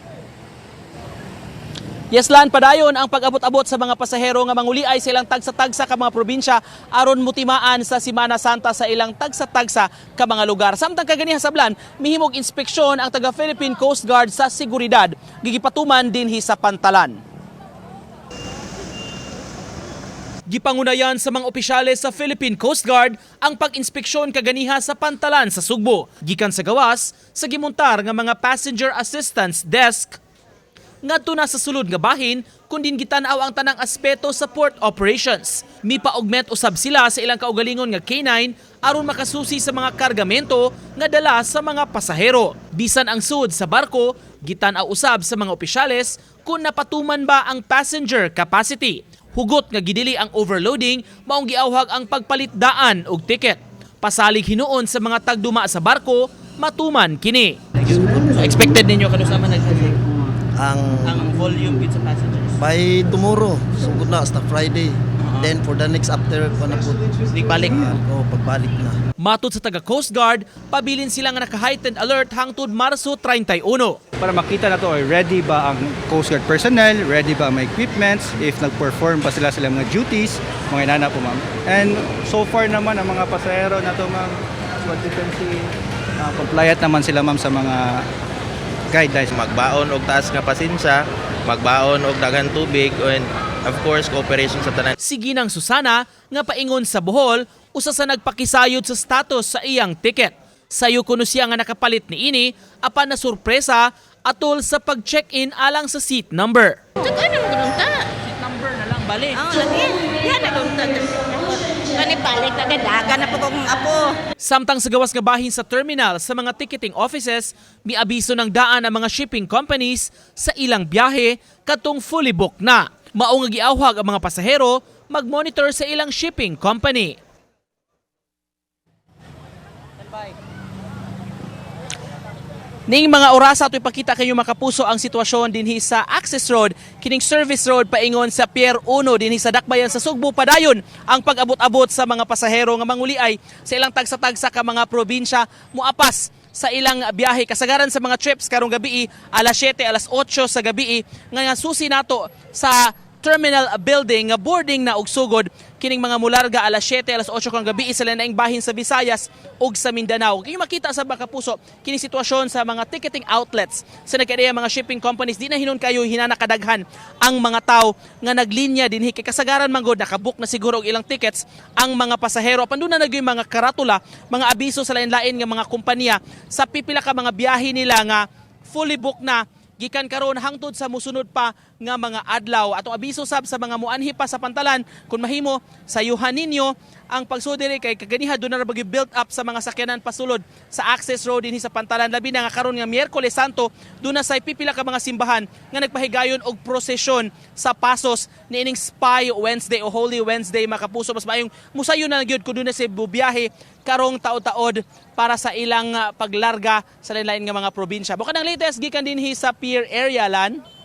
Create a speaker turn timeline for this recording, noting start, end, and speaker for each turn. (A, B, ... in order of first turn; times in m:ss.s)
0:02.1-0:17.2 A
0:20.5-0:30.2 A
0:31.0-1:00.0 A
1:00.6-1:01.3 B
1:01.1-1:02.4 A
1:02.6-1:09.0 B
1:07.3-1:07.9 A
1:09.2-1:14.0 A
1:14.2-1:28.1 C
1:28.9-1:29.3 C
1:29.3-1:34.9 D
1:35.0-1:46.8 A
1:47.0-1:48.1 E
1:48.3-1:49.6 A
1:49.4-1:54.2 E
1:54.4-2:07.2 A
2:12.9-3:30.6 A